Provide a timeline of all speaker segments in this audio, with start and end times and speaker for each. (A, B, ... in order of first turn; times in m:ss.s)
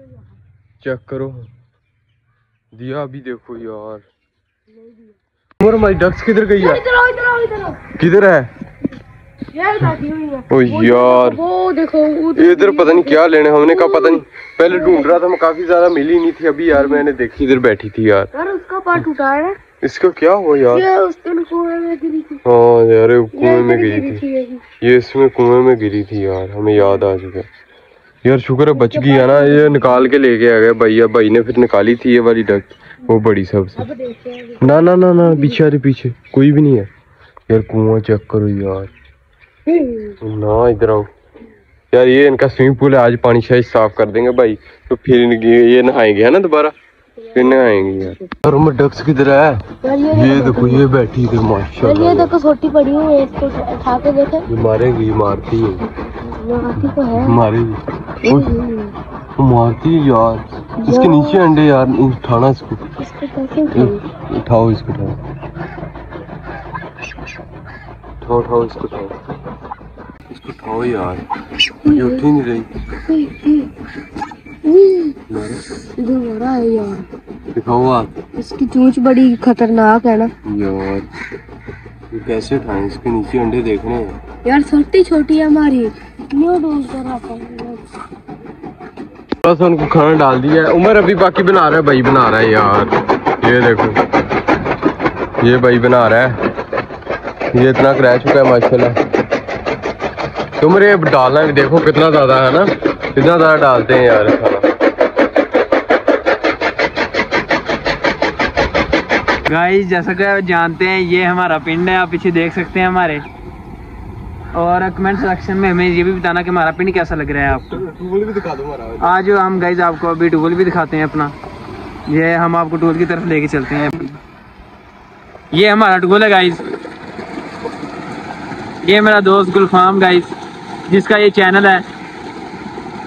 0:00.8-0:01.5 A
0:02.7-0:04.0 A
0:05.6-0:06.9 A
0:06.6-0:07.8 B
0:07.8-0:08.5 A
0:09.5-0:15.2 B
0:10.5-0:11.4 A
0:12.3-0:18.3 A
0:16.7-0:17.0 B
0:18.3-0:19.6 B
0:19.8-0:20.9 A
0:20.7-0:22.4 B
0:22.4-0:24.2 A
0:23.3-0:24.6 B
0:24.8-0:27.5 A
0:28.2-0:33.9 A
0:28.8-0:30.1 B
0:34.0-0:34.8 B
0:34.6-0:36.9 A
0:35.3-0:35.6 B
0:37.5-0:38.9 A
0:39.7-0:40.1 B
0:40.2-0:41.1 A
0:41.9-0:46.7 A
0:47.3-0:48.1 B
0:47.3-0:52.3 A
0:49.8-0:50.8 B
0:51.8-0:54.5 B
0:54.5-0:55.8 A
0:56.1-0:57.4 B
0:56.8-0:58.5 A
0:58.2-0:59.0 B
0:59.4-1:02.8 A
1:00.8-1:01.4 B
1:03.0-1:04.0 B
1:03.7-1:05.2 A
1:08.2-1:09.3 A
1:10.3-1:11.2 A
1:11.8-1:12.3 B
1:11.9-1:12.7 A
1:13.0-1:13.7 B
1:14.6-1:15.2 B
1:15.3-1:15.6 A
1:16.0-1:17.1 B
1:17.5-1:18.2 A
1:18.4-1:20.3 B
1:20.4-1:21.1 A
1:22.1-1:24.2 A
1:24.4-1:27.8 B
1:29.4-1:34.0 A
1:35.4-1:36.3 A
1:37.5-1:39.0 A
1:40.6-1:44.7 A
1:49.4-1:53.2 C
1:54.5-1:57.8 C
1:57.4-1:59.1 A
1:59.0-2:01.3 C
2:02.1-2:04.2 C
2:05.5-2:06.6 C
2:08.8-2:10.3 C
2:10.9-2:11.8 C